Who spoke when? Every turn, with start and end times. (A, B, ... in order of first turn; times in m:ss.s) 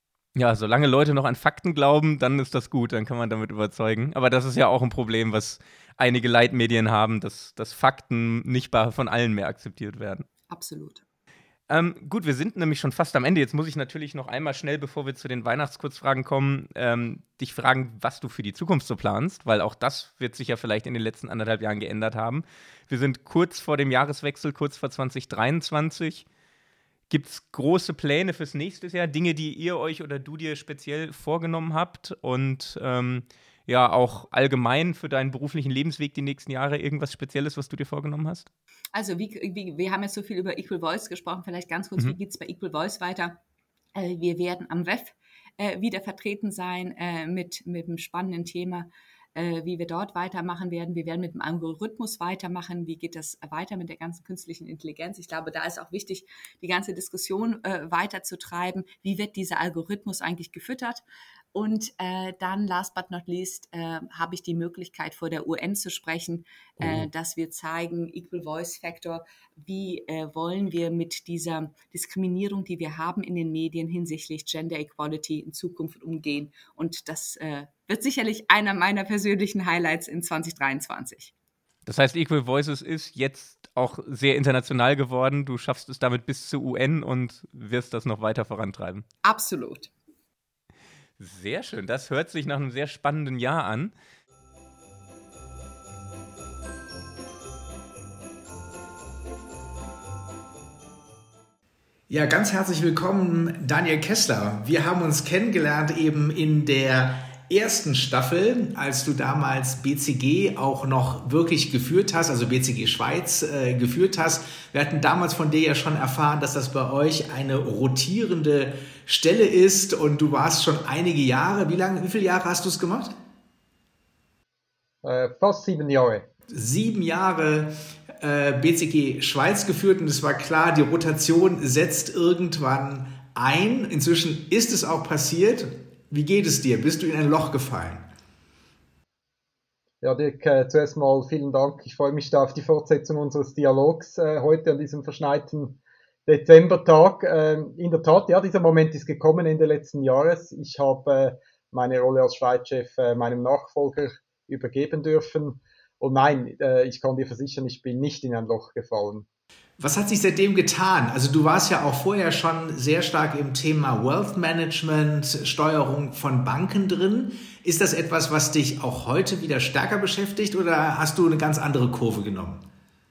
0:00.4-0:10.2 A
0:10.5-0:11.0 B
0:11.7-0:26.3 A
0:27.1-0:38.5 A
0:38.9-0:43.4 B
0:43.9-1:01.0 B
1:01.5-1:21.3 B
1:06.8-1:07.0 A
1:21.9-1:29.0 A
1:29.2-1:29.9 B
1:31.2-1:33.9 A
1:42.1-2:03.1 C
2:05.0-2:06.3 D
2:06.5-2:18.0 C
2:20.0-2:39.3 D
2:39.8-2:52.6 C